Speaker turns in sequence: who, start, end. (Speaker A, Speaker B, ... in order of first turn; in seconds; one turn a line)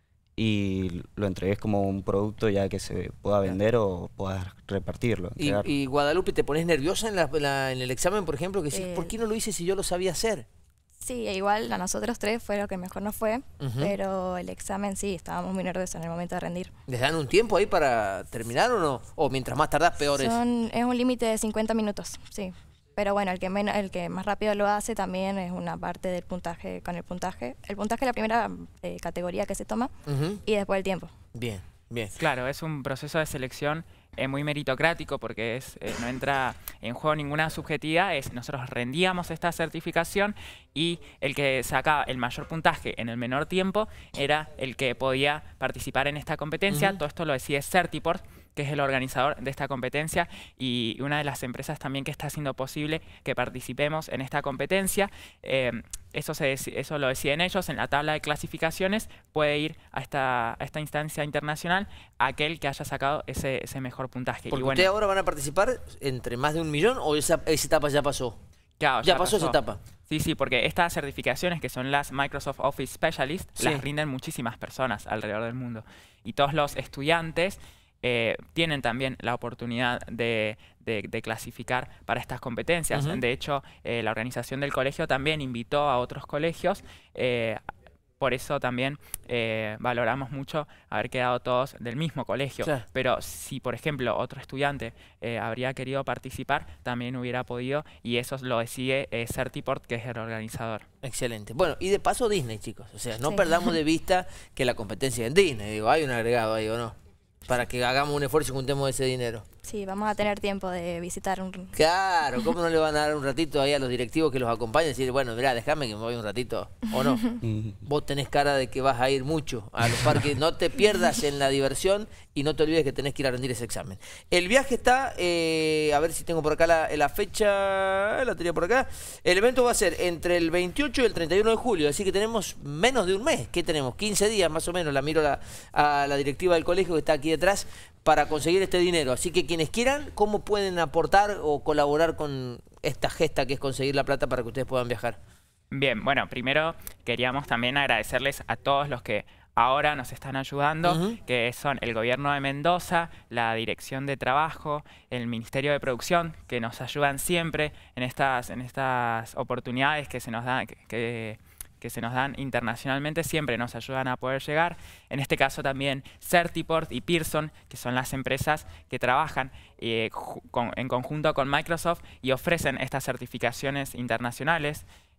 Speaker A: 0.4-5.7
Speaker B: 5.4-10.5
Speaker C: 8.7-9.1
Speaker C: 11.0-16.7
Speaker B: 13.6-13.9
Speaker B: 16.9-20.4
Speaker C: 20.1-29.9
Speaker B: 30.1-30.4
Speaker C: 30.4-31.1
Speaker B: 31.4-32.1
Speaker D: 32.1-64.9
Speaker B: 46.7-47.0
Speaker B: 64.5-68.4
Speaker D: 68.8-87.6
Speaker B: 69.0-69.8
Speaker B: 73.6-73.8
Speaker B: 82.9-83.2
Speaker D: 88.2-100.9
Speaker B: 101.0-107.0
Speaker B: 107.5-109.5
Speaker C: 109.6-111.8
Speaker B: 111.8-145.2
Speaker A: 117.4-117.8
Speaker D: 145.7-174.8
Speaker B: 150.8-151.2